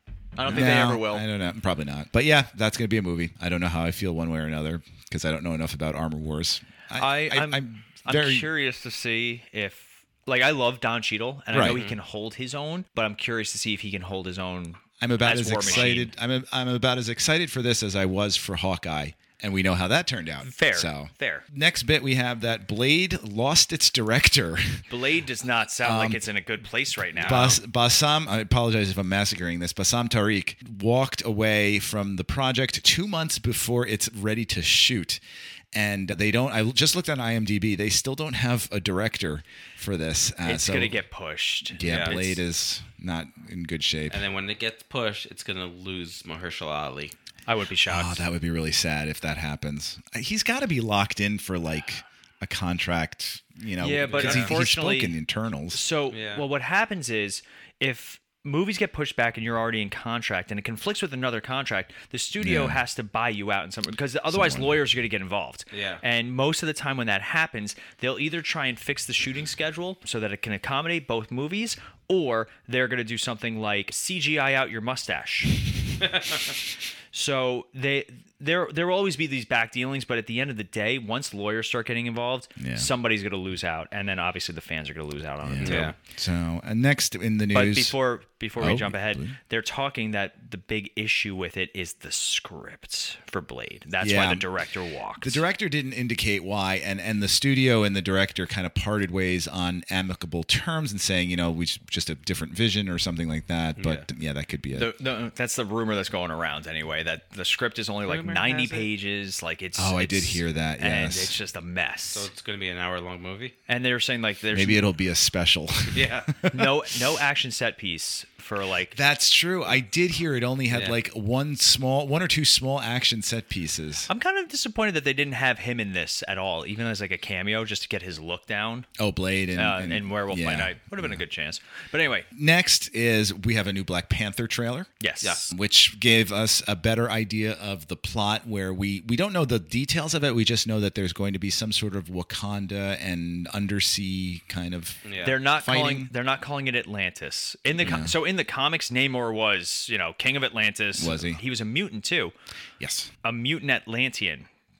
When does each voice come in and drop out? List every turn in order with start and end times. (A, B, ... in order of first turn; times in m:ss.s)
0:00.4-0:01.2 A
0:00.4-0:08.5 B
0:07.0-0:16.1 A
0:11.5-0:11.8 B
0:11.6-0:12.0 C
0:15.0-0:24.8 B
0:15.6-0:15.9 C
0:20.4-0:21.4 A
0:24.9-0:27.6 A
0:25.8-0:26.2 B
0:27.2-0:27.6 C
0:27.2-0:35.2 B
0:35.7-0:41.0 B
0:40.4-0:42.4 A
0:41.7-0:44.2 B
0:41.8-0:42.2 C
0:44.1-0:47.1 C
0:47.5-0:48.3 A
0:47.9-0:55.8 B
0:53.8-0:55.1 A
0:54.1-0:54.6 C
0:55.7-1:15.6 A
0:56.1-0:56.4 C
1:02.4-1:02.8 B
1:04.3-1:04.8 B
1:05.7-1:06.0 C
1:17.1-1:25.9 A
1:22.6-1:22.9 B
1:25.4-1:27.9 B
1:25.6-1:26.0 C
1:27.5-1:35.4 A
1:28.6-1:29.4 B
1:34.0-1:34.5 B
1:35.2-1:44.9 B
1:43.8-1:44.0 C
1:44.8-1:52.3 A
1:48.1-1:48.9 C
1:49.8-1:51.3 B
1:52.1-1:53.5 C
1:53.7-1:54.8 A
1:54.5-1:56.8 B
1:55.9-1:56.4 C
1:56.5-1:59.0 A
1:58.9-2:04.1 B
2:00.7-2:01.0 C
2:04.1-2:08.9 A
2:09.0-2:11.2 B
2:09.6-2:12.3 A
2:12.3-2:14.9 B
2:15.0-2:15.4 A
2:15.2-2:15.5 C
2:15.5-2:26.1 B
2:25.1-2:25.4 C
2:25.2-2:32.3 A
2:27.8-2:28.1 B
2:31.0-2:31.4 B
2:32.8-2:33.1 B
2:33.2-2:34.5 A